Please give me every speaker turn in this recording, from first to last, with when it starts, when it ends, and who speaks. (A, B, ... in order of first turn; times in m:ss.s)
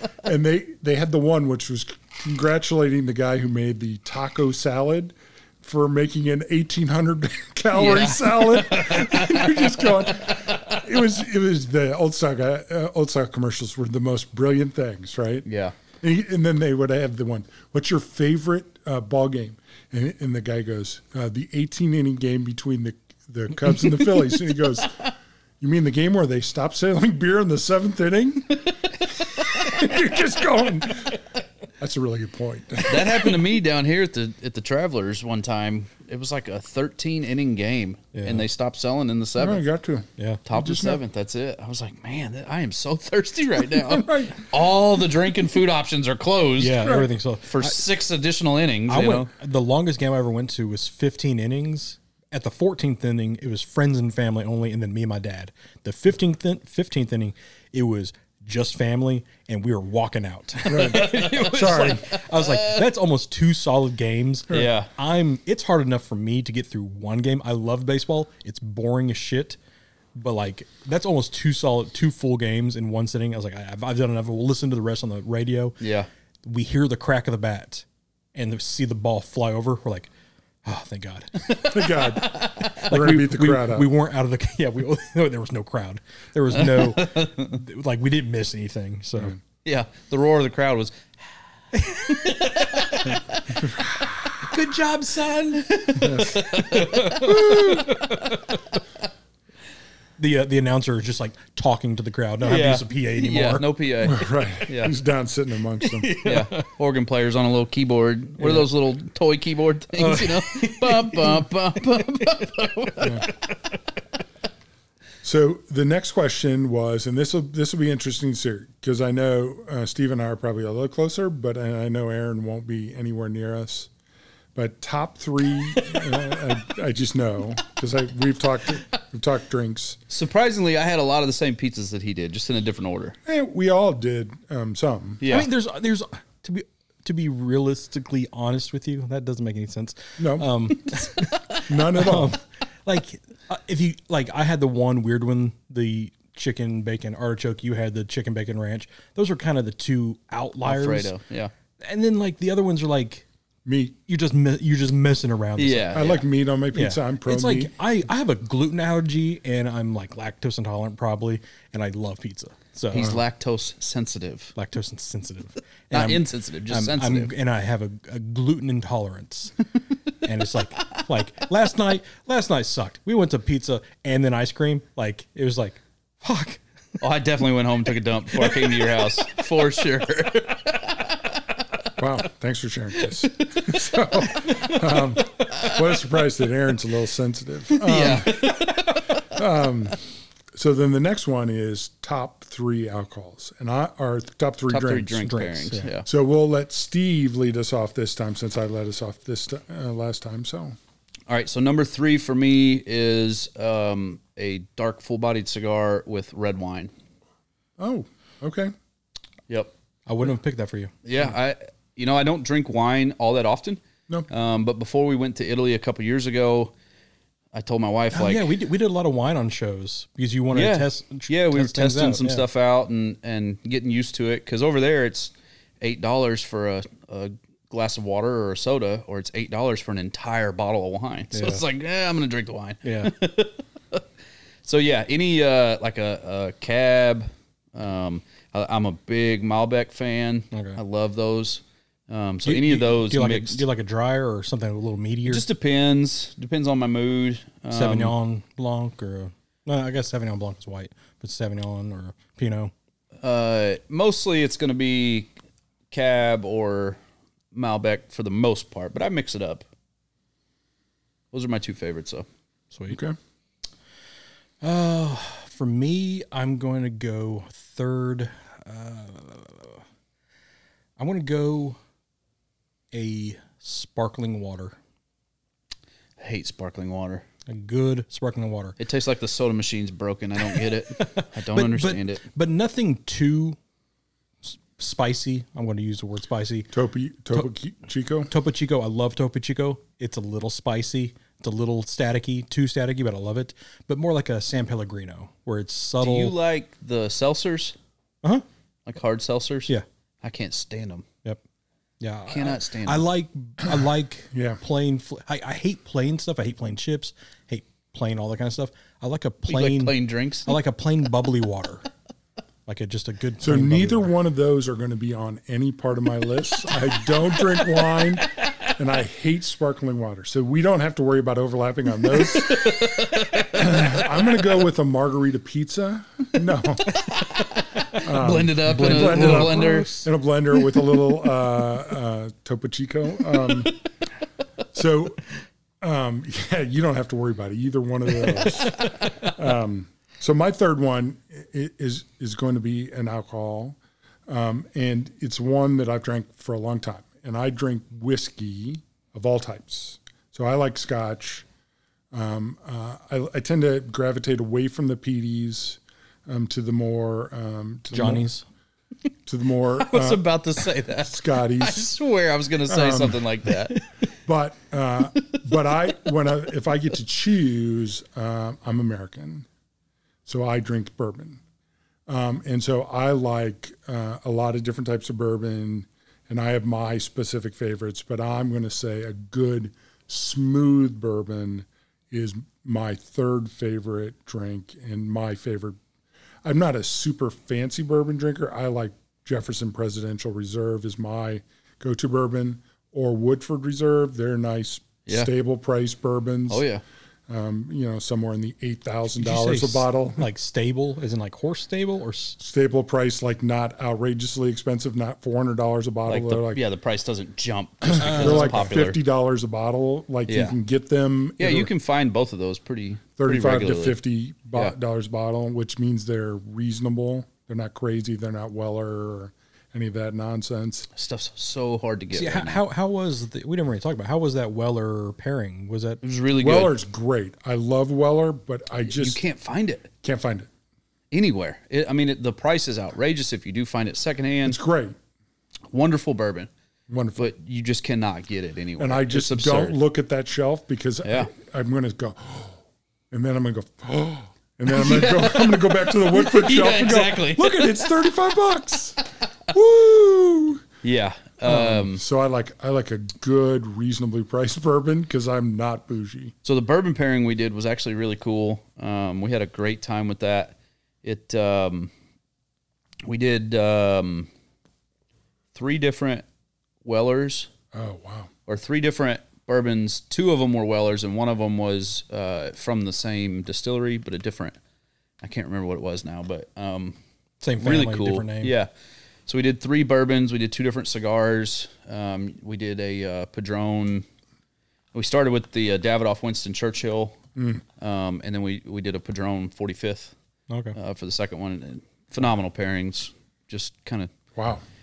0:00.2-0:15.4 A
0:07.7-0:10.6 B
0:15.4-0:15.7 B
0:16.0-0:25.0 A
0:25.6-0:31.2 A
0:31.8-0:33.4 A
0:32.8-0:39.6 B
0:38.1-0:38.5 C
0:39.4-0:41.0 A
0:40.4-0:49.3 B
0:43.8-0:44.4 A
0:46.6-0:47.8 C
0:46.8-0:47.1 A
0:48.9-1:09.6 C
1:00.7-1:02.1 A
1:00.7-1:02.8 B
1:04.5-1:04.9 B
1:10.2-1:15.8 C
1:15.8-1:16.1 B
1:16.4-1:20.1 C
1:20.6-1:22.0 C
1:21.6-1:23.9 A
1:22.0-1:22.8 B
1:22.8-1:29.4 C
1:26.6-1:27.5 B
1:29.6-1:31.1 B
1:31.7-1:33.2 C
1:32.0-1:33.6 B
1:33.7-1:34.0 A
1:34.4-1:38.6 C
1:35.6-1:38.1 B
1:36.0-1:36.4 A
1:37.3-1:37.9 A
1:40.2-1:43.6 C
1:42.4-1:44.9 B
1:44.0-1:46.1 A
1:46.0-1:46.7 C
1:46.2-1:53.2 B
1:48.4-1:48.7 C
1:50.0-1:51.5 C
1:53.0-1:53.3 A
1:55.2-2:03.9 A
2:04.5-2:10.0 A
2:10.1-2:13.2 B
2:13.2-2:15.2 A
2:15.2-2:15.5 B
2:15.3-2:31.1 C
2:20.2-2:20.6 A
2:21.6-2:22.4 A
2:30.6-2:31.5 B
2:31.8-2:33.2 C
2:33.6-2:34.0 A
2:34.0-2:36.0 C
2:35.6-2:36.2 B
2:35.9-2:37.7 A
2:36.7-2:43.1 C
2:42.9-2:44.5 B
2:42.9-2:43.2 A
2:44.6-2:49.6 C
2:45.9-2:47.3 B
2:50.2-2:56.6 C
2:57.0-3:01.4 B
3:02.0-3:10.0 A
3:05.5-3:05.8 B
3:07.7-3:09.2 B
3:10.5-3:15.2 A
3:14.7-3:16.1 B
3:15.2-3:15.9 C
3:16.0-3:20.7 A
3:21.3-3:26.9 B
3:27.8-3:28.7 A
3:30.1-3:30.9 C
3:31.0-3:36.7 B
3:37.5-3:38.5 B
3:38.1-3:42.4 C
3:40.5-3:54.0 B
3:51.3-3:51.6 C
3:52.8-3:53.1 C
3:54.6-4:03.6 B
4:00.5-4:00.8 C
4:02.4-4:05.4 C
4:05.2-4:08.1 B
4:07.7-4:12.7 C
4:13.2-4:15.3 B
4:15.9-4:17.0 B
4:17.5-4:19.6 B
4:21.3-4:22.2 B
4:22.7-4:23.0 C
4:22.9-4:23.2 A
4:24.6-4:29.8 C
4:31.0-4:31.8 C
4:32.9-4:34.8 C
4:36.2-4:37.2 B
4:37.5-4:38.8 C
4:38.8-4:42.2 B
4:40.4-4:43.6 C
4:44.4-4:46.7 C
4:46.7-4:48.3 A
4:48.3-4:56.3 C
4:56.0-4:57.8 B
4:58.8-5:01.0 B
5:02.0-5:11.8 C
5:02.3-5:03.0 B
5:04.3-5:04.6 A
5:09.5-5:10.5 B
5:12.6-5:14.1 C
5:13.4-5:27.0 A
5:17.8-5:18.7 B
5:22.1-5:24.2 B
5:26.9-5:30.0 B
5:28.0-5:33.8 A
5:28.6-5:30.0 C
5:34.7-5:35.2 A
5:35.8-5:51.4 A
5:52.1-5:58.3 A
5:57.9-5:58.4 C
5:59.2-6:00.3 A
5:59.8-6:03.8 B
6:00.9-6:01.9 A
6:02.7-6:03.2 A
6:04.2-6:09.4 A
6:10.2-6:11.4 A
6:12.1-6:25.8 A
6:26.4-6:36.6 A
6:36.5-6:36.8 B
6:37.3-6:40.3 A
6:39.2-6:42.4 C
6:42.4-6:46.6 A
6:46.1-6:49.0 B
6:47.8-6:51.7 A
6:48.0-6:48.8 C
6:50.3-6:50.6 B
6:51.4-6:54.0 B
6:53.2-7:00.9 A
7:01.0-7:02.6 B
7:02.1-7:06.0 C
7:06.0-7:06.7 B
7:06.4-7:09.2 A
7:08.8-7:09.9 B
7:10.0-7:10.5 A
7:11.1-7:14.6 B
7:14.4-7:15.0 A
7:15.7-7:16.5 B
7:16.9-7:17.3 A
7:17.2-7:19.8 B
7:18.8-7:22.6 A
7:21.0-7:21.3 B
7:23.1-7:30.6 A
7:24.7-7:27.9 B
7:30.8-7:32.0 B
7:31.4-7:36.3 A
7:36.4-7:41.9 B
7:43.0-7:44.3 B
7:45.5-7:46.2 B
7:46.8-7:47.5 B
7:47.7-7:48.3 A
7:48.5-7:54.6 B
7:55.2-7:57.0 B
7:57.4-7:58.5 C
7:57.6-7:58.7 B
7:59.3-8:04.0 B
8:04.9-8:07.2 B
8:07.4-8:07.6 A
8:07.8-8:10.1 B
8:10.5-8:10.8 C
8:10.7-8:14.1 B
8:14.3-8:14.6 A